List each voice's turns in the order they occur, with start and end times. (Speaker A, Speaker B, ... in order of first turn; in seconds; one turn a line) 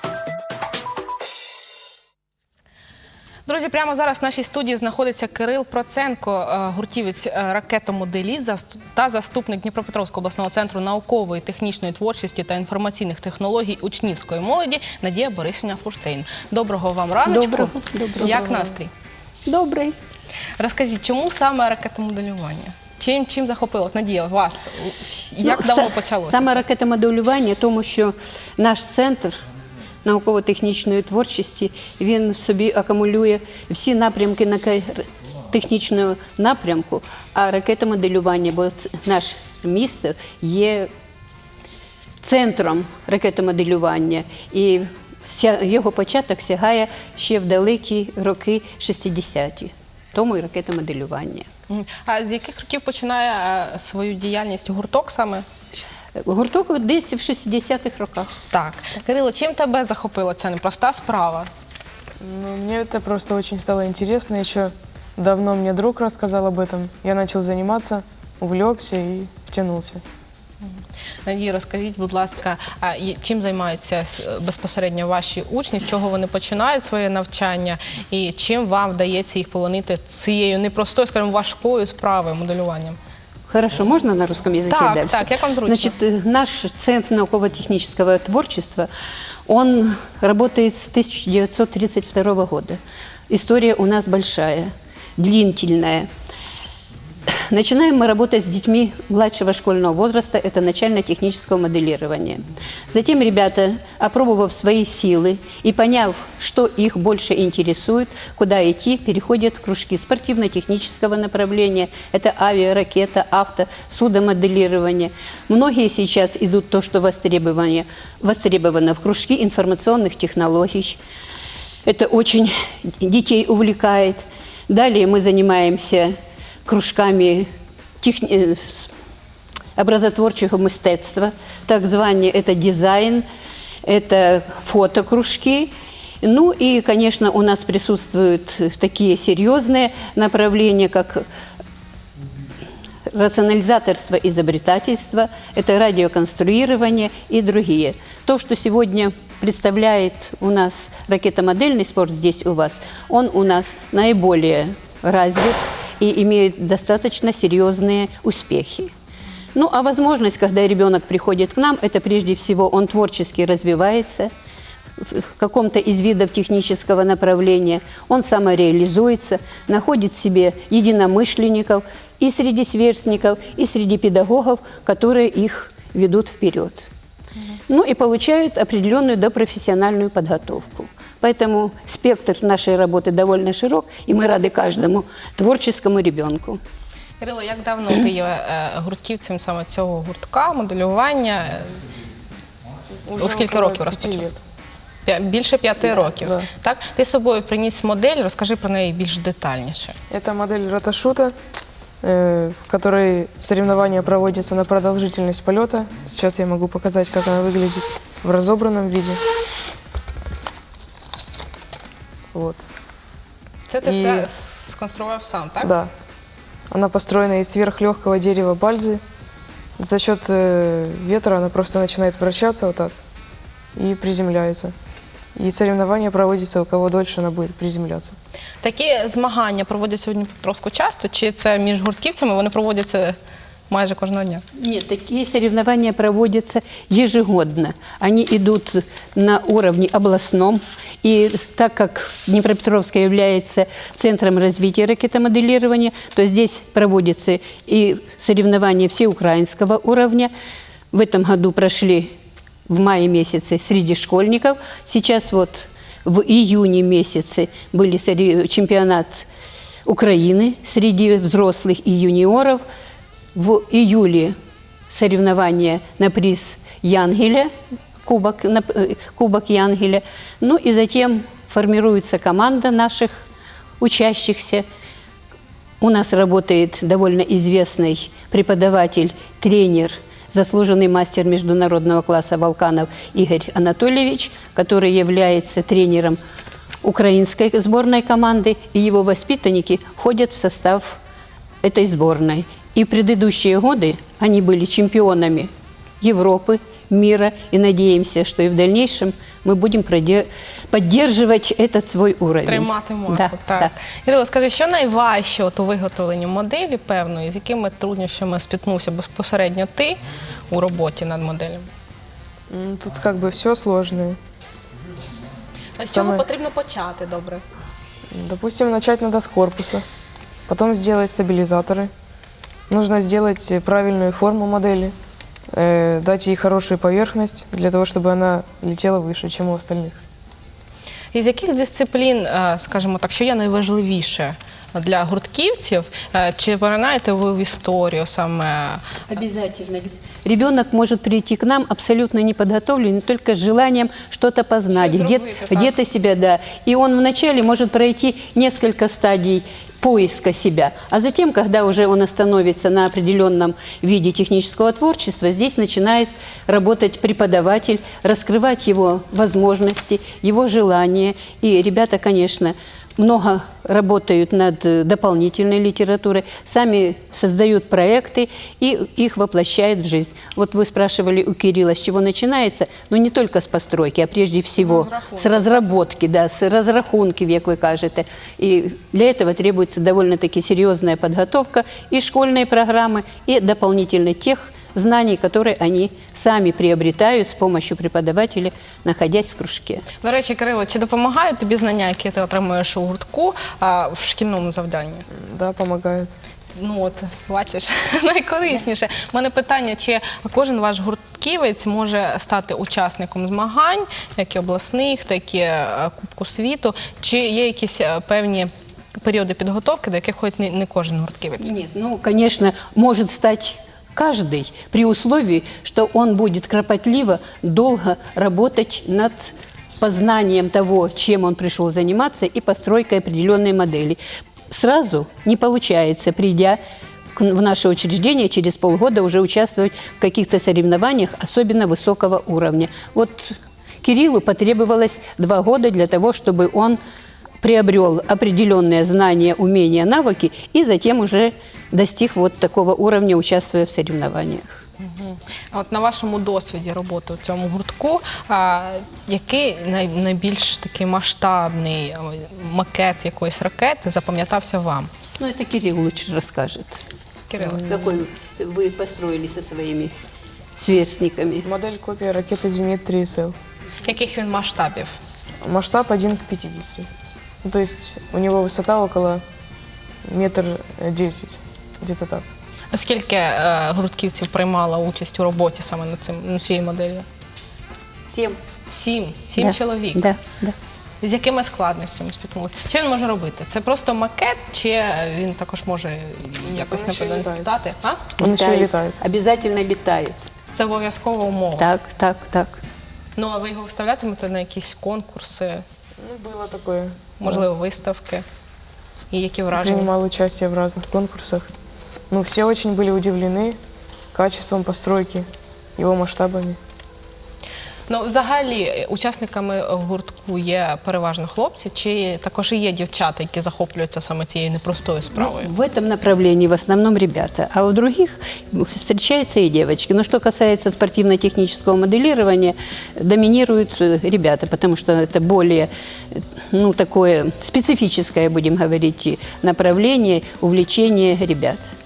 Speaker A: 3.5-18.9
Speaker B: 17.3-18.7
Speaker B: 19.5-20.0
Speaker A: 20.6-26.6
Speaker B: 25.4-29.4
Speaker B: 30.0-40.9
Speaker B: 42.2-51.5
Speaker A: 51.7-55.5
Speaker B: 56.2-58.3
Speaker A: 58.5-61.5
Speaker C: 62.2-70.0
Speaker A: 71.2-83.0
Speaker B: 83.5-88.9
Speaker A: 84.7-86.0
Speaker B: 89.5-96.1
Speaker B: 97.3-121.0
Speaker B: 121.9-126.2
Speaker B: 126.7-127.5
Speaker B: 128.0-128.9
Speaker B: 129.8-133.2
Speaker B: 133.8-141.2
Speaker B: 143.1-158.9
Speaker B: 159.6-164.3
Speaker B: 165.0-176.9
Speaker B: 177.7-186.6
Speaker A: 187.2-191.8
Speaker C: 193.1-194.4
Speaker A: 193.2-194.2
Speaker A: 195.1-199.9
Speaker C: 196.0-196.5
Speaker C: 200.1-201.3
Speaker C: 202.0-209.2
Speaker C: 212.3-212.7
Speaker A: 213.7-215.7
Speaker C: 213.8-214.3
Speaker C: 215.6-215.9
Speaker C: 216.7-219.0
Speaker C: 219.8-222.9
Speaker C: 223.8-224.7
Speaker C: 225.4-228.2
Speaker A: 228.6-233.2
Speaker A: 233.7-234.4
Speaker B: 234.6-250.3
Speaker B: 250.9-252.1
Speaker B: 252.7-259.3
Speaker B: 259.9-262.6
Speaker B: 263.4-264.4
Speaker B: 264.9-267.5
Speaker B: 268.0-273.2
Speaker B: 273.8-274.6
Speaker B: 275.8-286.2
Speaker B: 286.8-291.0
Speaker B: 291.6-295.5
Speaker B: 296.0-303.7
Speaker A: 302.5-311.7
Speaker C: 312.5-314.2
Speaker A: 315.8-317.4
Speaker C: 315.9-316.2
Speaker C: 318.1-319.8
Speaker C: 320.5-321.9
Speaker C: 322.7-324.9
Speaker C: 325.5-330.0
Speaker A: 331.1-339.1
Speaker B: 339.1-389.9
Speaker A: 344.7-345.8
Speaker A: 374.6-375.6
Speaker A: 390.0-395.1
Speaker C: 395.1-396.2
Speaker A: 396.6-408.5
Speaker A: 409.0-411.5
Speaker B: 411.4-426.6
Speaker B: 427.2-436.8
Speaker B: 437.4-444.6
Speaker A: 444.8-454.9
Speaker B: 455.2-456.8
Speaker A: 457.3-457.7
Speaker C: 457.4-457.9
Speaker B: 457.6-459.9
Speaker B: 460.6-461.5
Speaker C: 461.4-463.3
Speaker A: 463.8-465.0
Speaker C: 465.4-466.9
Speaker C: 467.4-469.2
Speaker C: 470.1-472.2
Speaker A: 472.7-477.1
Speaker B: 478.1-478.4
Speaker A: 478.7-480.1
Speaker B: 479.4-480.6
Speaker A: 481.0-488.1
Speaker C: 486.4-487.6
Speaker B: 488.2-490.2
Speaker C: 488.2-489.0
Speaker A: 490.5-491.7
Speaker B: 491.6-492.6
Speaker A: 493.2-495.6
Speaker C: 496.0-497.4
Speaker A: 497.2-498.2
Speaker A: 499.1-499.9
Speaker C: 499.5-501.5
Speaker C: 502.1-503.6
Speaker C: 504.1-505.2
Speaker C: 505.8-506.6
Speaker A: 507.9-515.5
Speaker B: 515.1-531.6